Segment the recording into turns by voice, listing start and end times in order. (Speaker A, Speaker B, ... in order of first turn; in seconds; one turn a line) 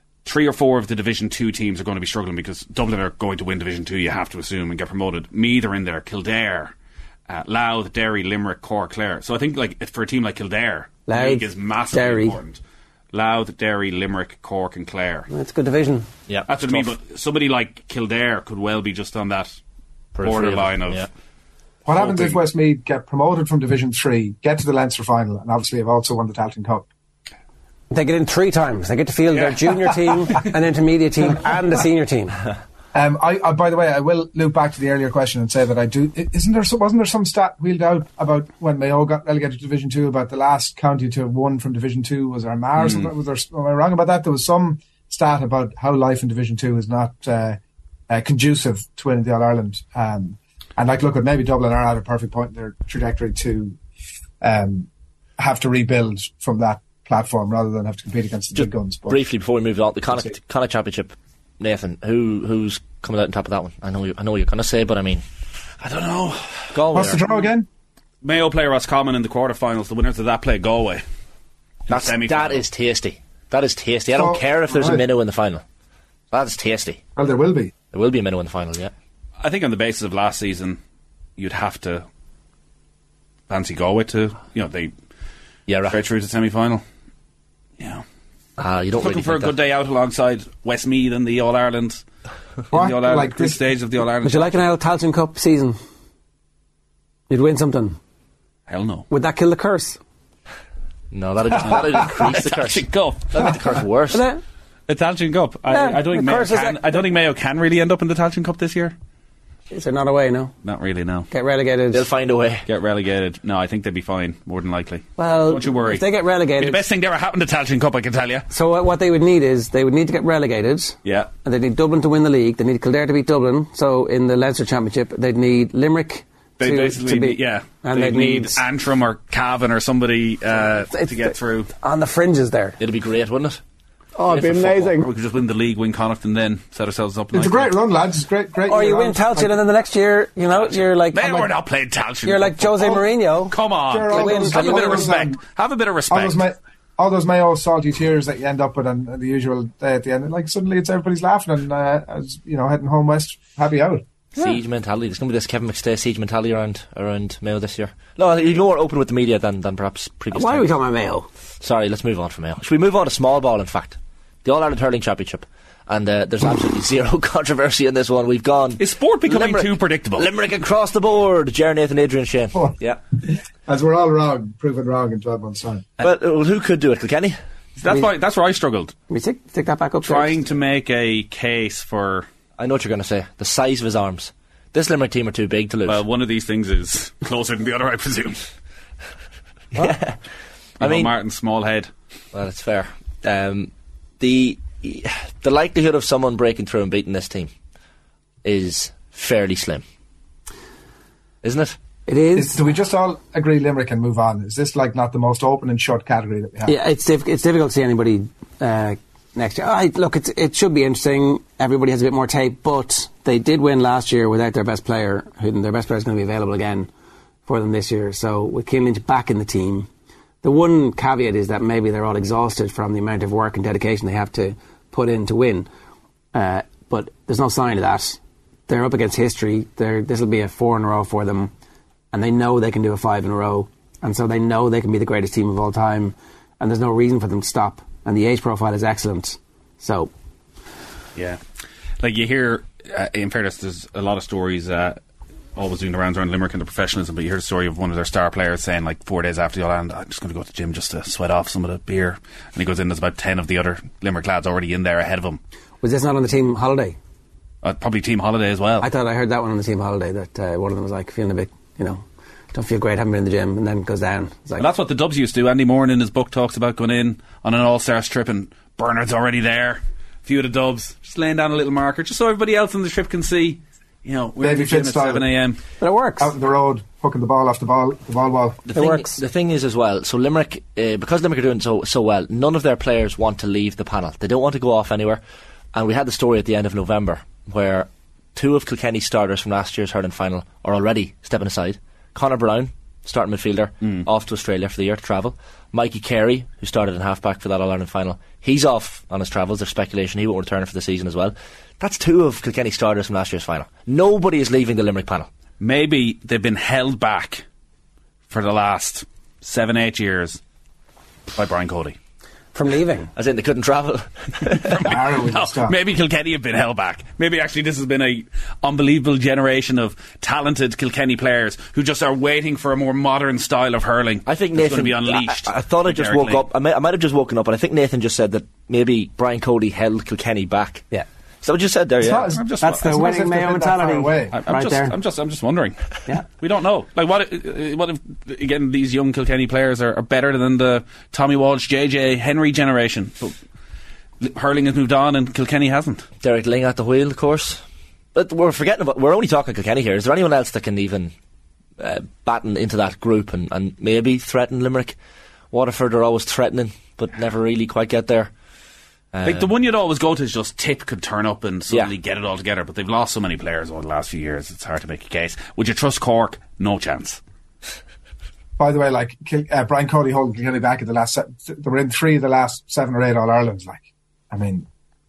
Speaker A: 0.2-6.7
Speaker A: 7.3-12.6
Speaker B: 11.1-12.4
Speaker A: 13.1-15.3
Speaker B: 15.3-16.1
Speaker C: 16.3-16.9
Speaker A: 16.5-19.6
Speaker C: 20.1-21.1
Speaker A: 20.2-21.1
Speaker D: 21.8-26.9
Speaker A: 21.9-22.4
Speaker B: 27.9-32.4
Speaker A: 29.3-29.9
Speaker D: 32.9-47.6
Speaker A: 42.8-43.1
Speaker D: 48.1-53.8
Speaker D: 54.4-54.9
Speaker D: 55.4-59.2
Speaker C: 58.5-65.2
Speaker A: 65.8-66.7
Speaker C: 66.7-67.2
Speaker D: 66.9-67.7
Speaker A: 68.2-71.0
Speaker A: 71.9-72.6
Speaker C: 71.9-75.6
Speaker D: 74.1-75.0
Speaker C: 76.3-77.0
Speaker D: 77.2-77.7
Speaker C: 77.9-78.9
Speaker A: 79.4-80.8
Speaker A: 81.4-82.0
Speaker A: 83.5-84.9
Speaker C: 85.7-86.0
Speaker A: 85.9-86.8
Speaker A: 87.8-88.0
Speaker C: 88.6-89.5
Speaker A: 89.0-92.0
Speaker A: 92.7-94.6
Speaker D: 92.7-93.6
Speaker B: 94.2-95.8
Speaker B: 97.3-98.0
Speaker A: 98.7-99.1
Speaker B: 99.1-100.0
Speaker C: 101.1-104.2
Speaker A: 101.7-103.2
Speaker B: 104.1-104.4
Speaker A: 104.9-108.9
Speaker B: 105.7-106.9
Speaker B: 109.7-110.5
Speaker A: 110.6-111.3
Speaker B: 111.3-112.0
Speaker C: 111.9-112.6
Speaker A: 112.7-116.0
Speaker B: 115.2-116.8
Speaker A: 116.6-118.5
Speaker B: 118.5-128.6
Speaker A: 121.0-121.3
Speaker A: 126.6-131.7
Speaker B: 130.9-132.8
Speaker C: 132.8-133.6
Speaker B: 134.2-135.1
Speaker A: 134.3-137.7
Speaker D: 137.3-139.6
Speaker B: 138.7-141.5
Speaker A: 140.6-142.8
Speaker B: 142.2-143.5
Speaker D: 142.8-143.0
Speaker A: 143.5-146.4
Speaker D: 143.9-145.4
Speaker B: 144.1-145.1
Speaker D: 146.1-154.0
Speaker C: 154.3-160.7
Speaker B: 160.3-161.3
Speaker C: 161.6-173.0
Speaker A: 168.8-170.3
Speaker D: 172.6-175.9
Speaker C: 176.0-177.3
Speaker A: 177.8-178.9
Speaker B: 179.1-180.4
Speaker A: 180.0-182.3
Speaker C: 182.6-186.0
Speaker A: 185.8-188.4
Speaker C: 189.7-190.2
Speaker C: 190.8-191.1
Speaker A: 190.8-191.9
Speaker C: 192.3-197.5
Speaker C: 198.4-199.8
Speaker C: 201.4-201.8
Speaker B: 202.1-202.6
Speaker D: 202.3-206.8
Speaker B: 206.7-216.9
Speaker B: 217.4-219.9
Speaker B: 220.4-225.7
Speaker B: 226.3-231.5
Speaker B: 232.1-240.1
Speaker A: 242.0-245.0
Speaker A: 245.6-255.4
Speaker B: 255.8-257.0
Speaker A: 257.6-258.9
Speaker B: 258.8-264.6
Speaker A: 264.6-275.6
Speaker D: 274.4-275.3
Speaker B: 275.8-276.3
Speaker D: 276.2-278.6
Speaker C: 278.6-285.2
Speaker B: 278.7-279.2
Speaker C: 285.7-305.3
Speaker A: 305.6-307.4
Speaker A: 308.3-310.4
Speaker A: 311.3-312.0
Speaker B: 312.5-313.1
Speaker C: 313.1-314.9
Speaker A: 314.6-326.4
Speaker D: 314.8-315.8
Speaker C: 324.2-330.9
Speaker C: 331.4-332.3
Speaker D: 332.0-334.4
Speaker A: 332.3-332.8
Speaker B: 332.6-334.9
Speaker A: 334.3-343.4
Speaker A: 344.2-346.1
Speaker C: 346.2-347.6
Speaker C: 348.1-351.1
Speaker C: 351.8-355.0
Speaker C: 355.5-358.3
Speaker C: 359.1-359.5
Speaker A: 359.2-367.2
Speaker D: 368.6-374.6